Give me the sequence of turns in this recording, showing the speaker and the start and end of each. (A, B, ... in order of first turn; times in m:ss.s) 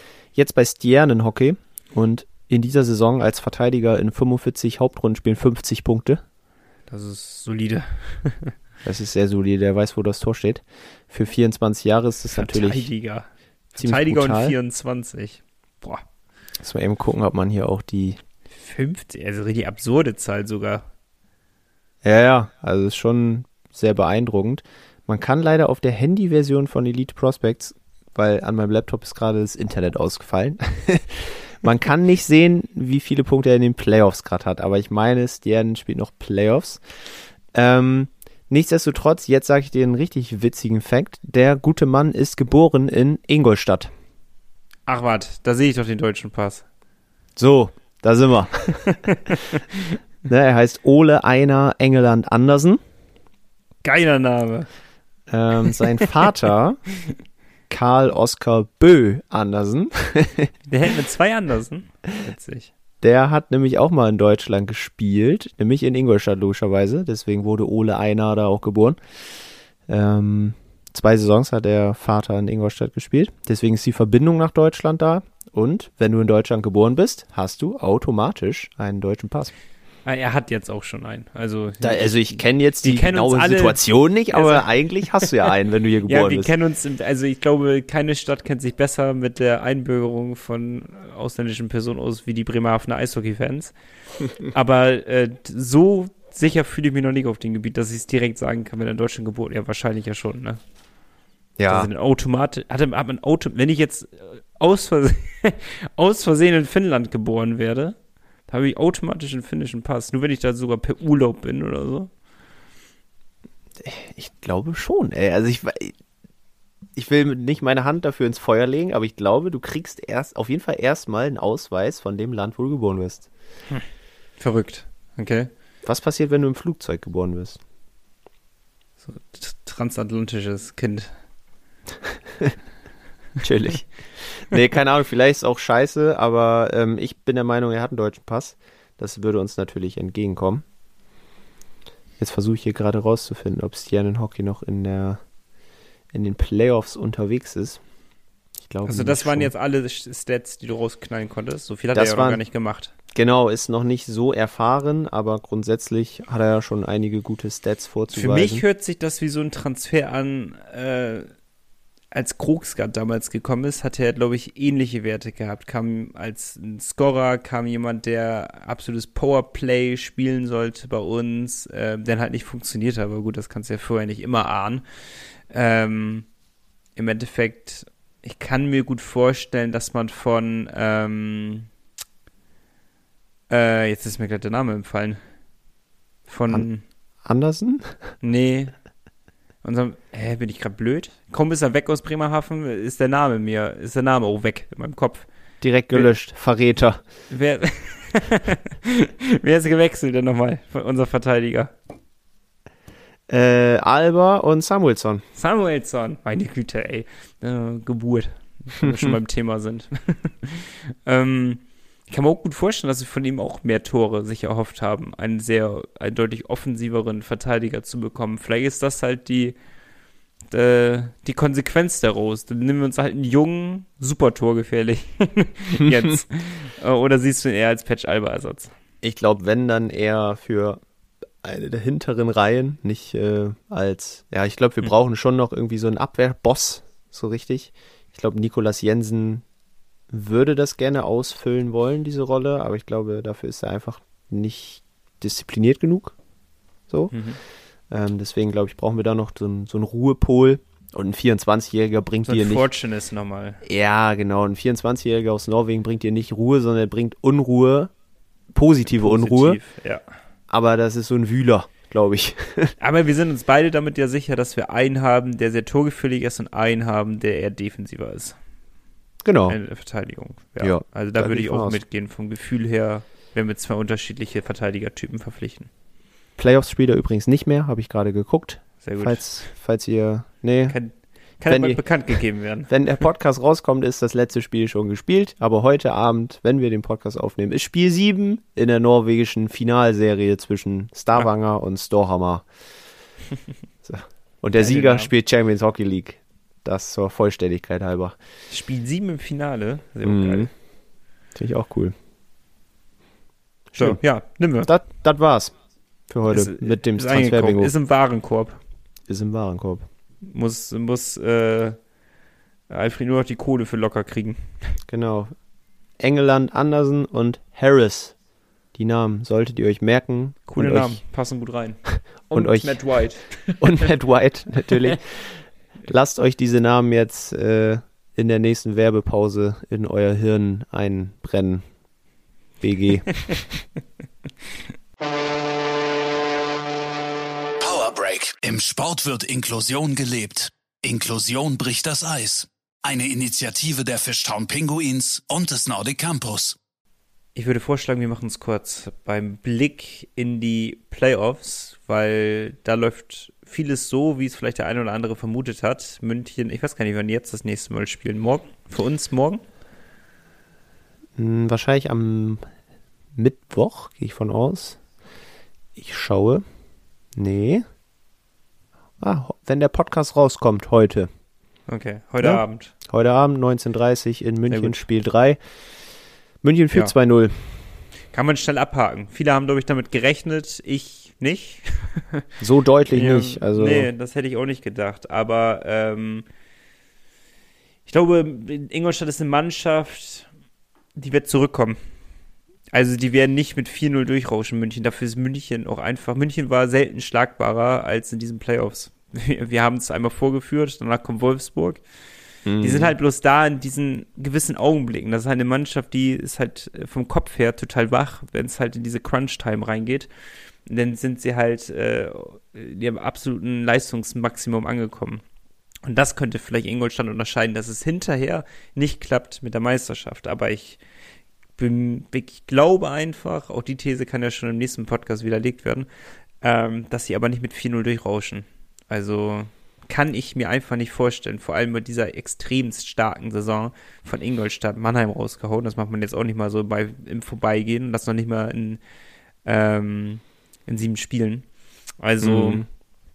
0:00.4-0:06.2 A
0:06.9-0:08.5 B
0:08.8-0:12.9 A
0:12.3-0:16.0 B
0:13.8-0:14.6 A
0:16.6-0:18.2 A
0:18.6-0:20.8 B
0:22.0-0:36.8 A
0:37.5-0:43.9 A
0:44.9-0:46.6 B
0:47.4-0:49.3 A
0:48.8-0:50.0 B
0:50.3-0:52.8 A
0:53.8-0:54.7 B
0:55.3-0:56.8 A
0:57.7-1:00.5 A
1:00.7-1:02.7 B
1:03.0-1:09.0 A
1:09.9-1:19.5 A
1:20.1-1:25.5 B
1:21.8-1:26.5 A
1:26.1-1:33.7 B
1:34.4-1:40.6 B
1:41.6-1:41.9 A
1:41.7-1:48.0 B
1:48.5-1:52.1 B
1:53.8-1:56.0 A
1:57.0-2:03.3 A
2:04.4-2:05.5 B
2:05.8-2:07.6 A
2:09.1-2:11.1 B
2:12.0-2:12.6 A
2:13.4-2:20.6 A
2:22.2-2:25.2 A
2:26.1-2:27.8 A
2:28.6-2:29.5 A
2:28.9-2:32.9 B
2:31.9-2:32.4 A
2:33.1-2:38.6 A
2:38.1-2:41.3 B
2:42.1-2:54.8 B
2:55.5-2:56.3 B
2:57.0-3:01.7 B
3:03.5-3:05.2 B
3:06.3-3:06.8 B
3:07.2-3:08.0 A
3:08.2-3:08.8 B
3:09.6-3:15.3 B
3:15.6-3:17.0 A
3:17.3-3:21.7 B
3:23.3-3:25.2 A
3:25.4-3:39.6 B
3:28.8-3:29.1 A
3:40.5-3:48.7 B
3:49.0-3:50.8 A
3:51.4-3:59.4 A
4:00.1-4:06.2 A
4:07.1-4:07.4 B
4:07.9-4:12.6 A
4:12.3-4:13.6 B
4:13.6-4:17.9 A
4:18.5-4:19.6 A
4:18.9-4:20.0 B
4:20.5-4:22.8 A
4:22.8-4:28.4 B
4:29.2-4:29.6 A
4:29.5-4:35.7 B
4:30.6-4:31.8 A
4:36.4-4:40.8 A
4:38.8-4:39.5 B
4:40.7-4:42.7 B
4:41.5-4:41.8 A
4:42.7-4:52.5 A
4:53.8-4:58.2 A
4:54.6-4:55.1 B
4:58.5-5:00.5 B
5:00.0-5:00.5 A
5:01.4-5:02.0 A
5:03.7-5:04.0 A
5:03.8-5:04.7 B
5:04.6-5:05.5 A
5:06.1-5:07.7 A
5:06.3-5:08.6 B
5:09.1-5:09.8 A
5:10.2-5:11.8 B
5:12.7-5:14.8 B
5:14.9-5:15.3 A
5:16.0-5:18.2 A
5:18.7-5:21.0 A
5:20.5-5:23.9 B
5:21.9-5:22.8 A
5:23.4-5:31.6 A
5:32.6-5:33.3 A
5:37.6-5:46.6 C
5:47.4-5:59.4 B
6:01.2-6:02.5 A
6:03.2-6:04.8 A
6:05.8-6:06.4 A
6:07.2-6:07.6 A
6:09.0-6:11.1 A
6:11.7-6:12.7 B
6:12.2-6:15.4 A
6:14.5-6:14.8 B
6:16.4-6:17.6 A
6:18.1-6:22.2 B
6:22.4-6:23.9 A
6:22.9-6:26.2 B
6:27.9-6:30.3 B
6:31.0-6:31.8 B
6:32.7-6:41.8 B
6:42.4-6:42.9 A
6:42.6-6:50.1 B
6:50.7-6:55.2 B
6:55.8-7:00.8 B
7:01.6-7:05.9 B
7:06.4-7:18.8 B
7:19.4-7:21.5 B
7:22.0-7:22.6 B
7:22.2-7:22.7 A